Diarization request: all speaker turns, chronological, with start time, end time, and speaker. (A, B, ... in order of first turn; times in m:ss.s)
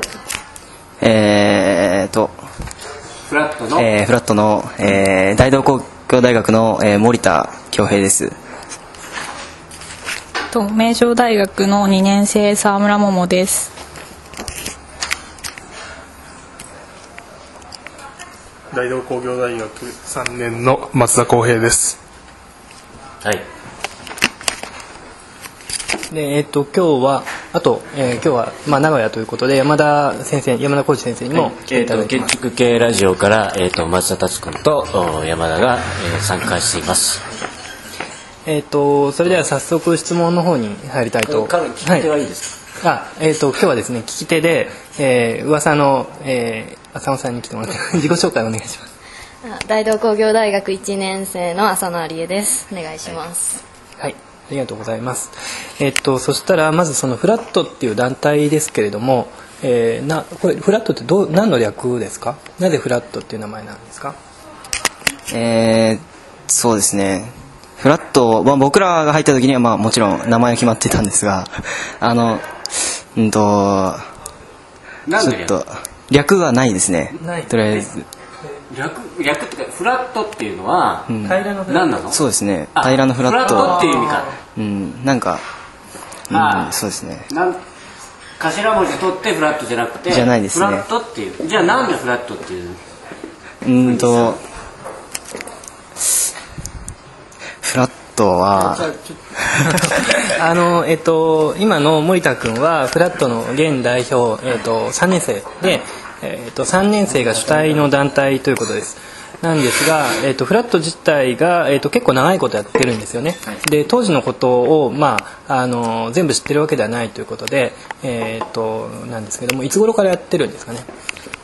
0:01.0-0:02.4 A
0:03.3-0:03.9 B
0:03.8-0:08.4 A
0:10.5-0:13.7 C
0:18.7-0:22.0 D
0:26.1-0:32.3 E
0:31.3-0:37.2 B
0:38.5-0:42.1 E
0:41.3-0:42.5 B
0:42.8-0:48.9 E
0:49.4-0:53.6 F
0:54.0-1:04.2 E
1:05.3-1:14.1 A
1:15.1-1:15.6 B
1:15.2-1:18.0 A
1:17.2-1:17.8 E
1:18.7-1:22.2 B
1:21.1-1:21.4 A
1:21.2-1:21.9 E
1:22.1-1:23.9 A
1:22.8-1:24.3 B
1:24.6-1:25.4 A
1:26.3-1:27.3 A
1:26.3-1:26.8 B
1:27.3-1:27.6 B
1:28.4-1:32.8 B
1:30.1-1:30.8 A
1:33.6-1:34.4 A
1:33.9-1:34.3 B
1:37.6-1:38.9 A
1:38.6-2:00.9 E